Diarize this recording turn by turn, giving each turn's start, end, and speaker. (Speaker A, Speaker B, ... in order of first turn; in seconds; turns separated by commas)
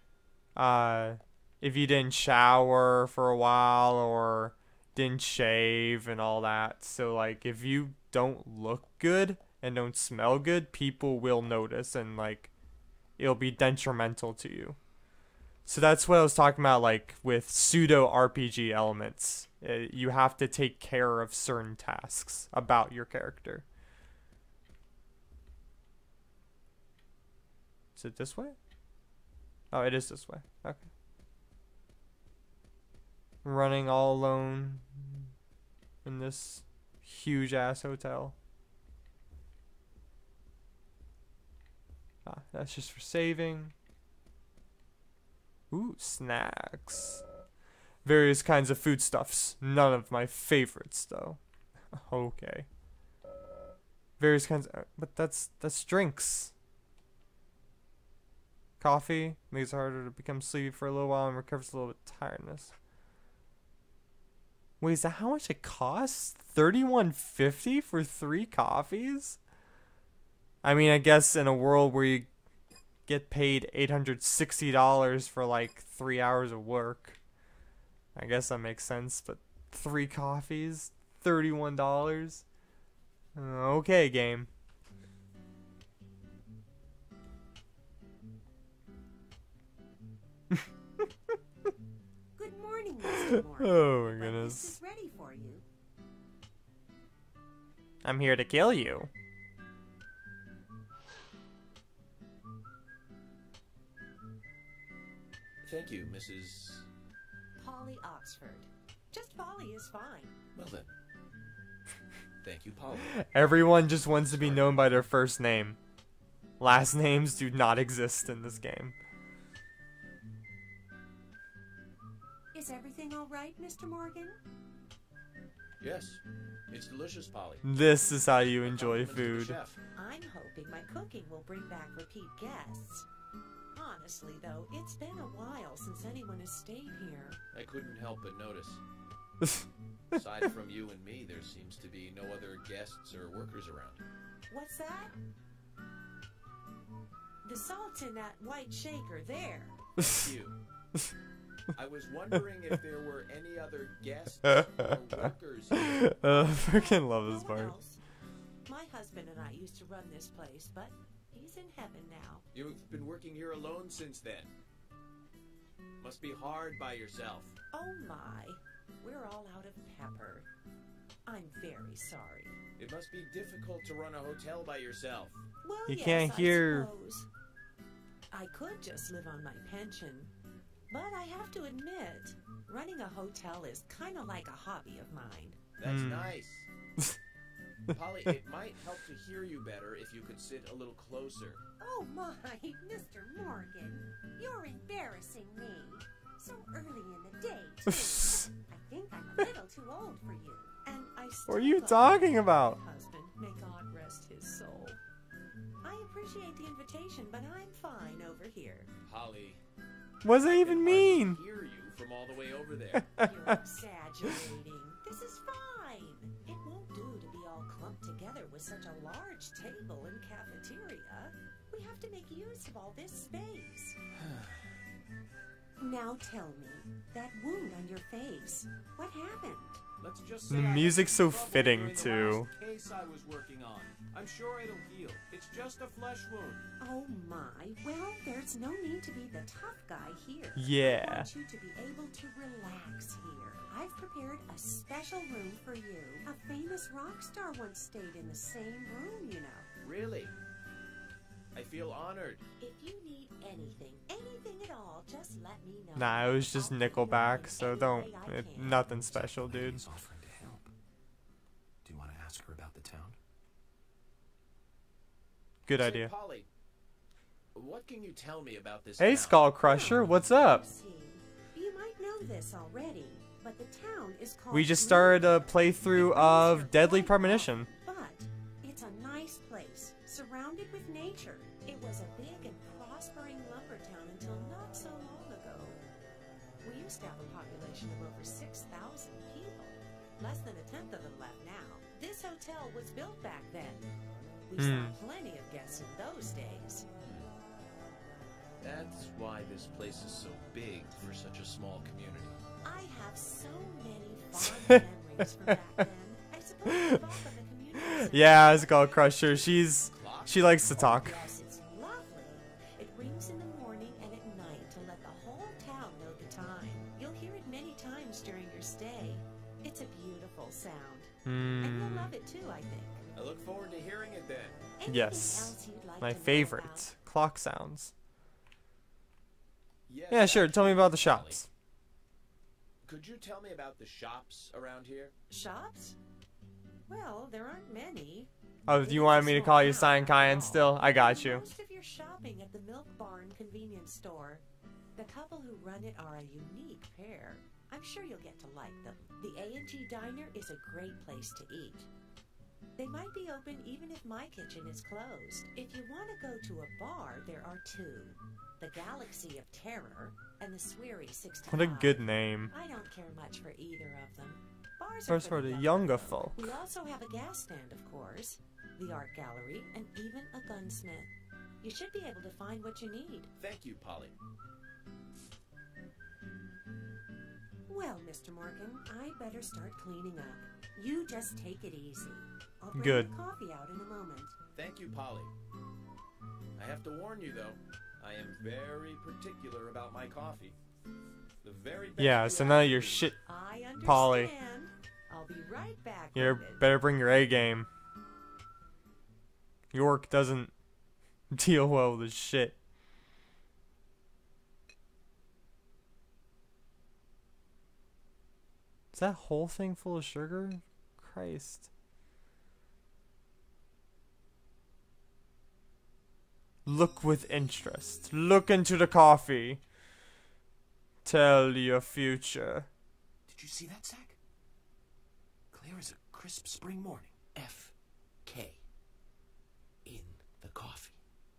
Speaker A: 0.6-12.5, Speaker A: 13.2-14.8, Speaker A: 15.7-23.6, Speaker A: 27.9-28.6, Speaker A: 29.7-30.9, Speaker A: 33.4-35.3, Speaker A: 36.0-38.3, Speaker A: 42.2-43.7, Speaker A: 45.7-47.2, Speaker A: 48.0-51.4, Speaker A: 51.9-52.7, Speaker A: 54.2-56.5, Speaker A: 58.8-62.7, Speaker A: 64.8-69.4, Speaker A: 70.6-72.3, Speaker A: 73.1-77.2, Speaker A: 78.1-82.4, Speaker A: 83.3-84.5, Speaker B: 92.3-95.6, Speaker A: 93.6-94.7, Speaker A: 98.0-99.1, Speaker C: 105.6-106.9, Speaker B: 107.6-110.3, Speaker D: 110.5-110.9, Speaker C: 112.4-113.3, Speaker A: 113.1-115.8, Speaker C: 114.3-114.7, Speaker A: 116.6-119.0, Speaker B: 122.5-124.4, Speaker C: 125.8-127.6, Speaker A: 127.6-129.6, Speaker C: 128.6-129.8, Speaker B: 129.9-133.1, Speaker B: 133.7-137.4, Speaker C: 137.5-138.8, Speaker C: 140.1-144.0, Speaker B: 144.5-145.1, Speaker B: 147.4-149.9, Speaker C: 150.0-150.6, Speaker C: 151.7-156.2, Speaker A: 155.7-157.7, Speaker B: 156.3-158.0, Speaker B: 158.7-162.4, Speaker C: 162.5-164.5, Speaker C: 166.0-167.5, Speaker B: 167.7-170.5, Speaker B: 171.2-172.6, Speaker C: 172.8-175.4, Speaker B: 175.6-177.3, Speaker A: 175.9-176.9, Speaker B: 178.3-180.3, Speaker B: 180.9-185.6, Speaker C: 185.8-186.7, Speaker A: 185.8-186.3, Speaker C: 187.9-191.6, Speaker B: 191.8-205.0, Speaker A: 201.5-202.8, Speaker B: 205.8-208.9, Speaker C: 209.0-209.6, Speaker A: 210.2-211.4, Speaker C: 210.5-213.1, Speaker B: 213.2-224.0, Speaker B: 225.8-229.8, Speaker C: 230.0-236.6, Speaker A: 230.5-232.5, Speaker B: 236.8-249.7, Speaker A: 240.5-241.3, Speaker C: 249.8-250.3, Speaker C: 251.5-252.4, Speaker B: 252.6-258.9, Speaker A: 255.9-259.8, Speaker D: 258.9-260.7, Speaker D: 261.8-263.2, Speaker A: 265.6-266.1, Speaker C: 265.7-266.5, Speaker C: 267.5-269.5, Speaker A: 269.0-270.6, Speaker B: 269.6-285.8, Speaker A: 274.5-277.7, Speaker B: 286.6-293.9, Speaker B: 294.5-296.9, Speaker A: 294.6-295.0, Speaker C: 297.0-297.3, Speaker C: 298.6-302.4, Speaker B: 302.6-309.4, Speaker A: 306.7-307.0, Speaker A: 307.8-311.2, Speaker C: 309.9-310.6, Speaker B: 310.7-323.0, Speaker A: 321.2-322.1, Speaker C: 323.1-324.6, Speaker B: 324.8-326.9, Speaker A: 324.8-327.9, Speaker C: 329.9-331.4, Speaker A: 330.1-331.5, Speaker C: 332.8-335.1, Speaker B: 335.3-336.0, Speaker B: 336.9-344.4, Speaker A: 338.7-341.4, Speaker B: 344.9-351.9, Speaker B: 352.8-371.1, Speaker A: 361.5-362.5, Speaker A: 365.1-366.6, Speaker B: 371.6-373.3, Speaker C: 373.4-374.1, Speaker B: 377.7-384.3, Speaker A: 382.7-383.1, Speaker C: 384.6-385.3, Speaker C: 386.6-390.6, Speaker C: 391.4-393.1, Speaker A: 392.0-393.2, Speaker B: 393.2-396.7, Speaker A: 393.8-394.3, Speaker A: 396.1-397.7, Speaker A: 399.7-400.5, Speaker A: 401.3-402.6, Speaker A: 408.9-411.7, Speaker A: 416.6-419.6, Speaker A: 421.0-422.7, Speaker D: 423.3-424.2, Speaker D: 425.5-427.7, Speaker D: 428.2-428.6, Speaker D: 429.8-431.0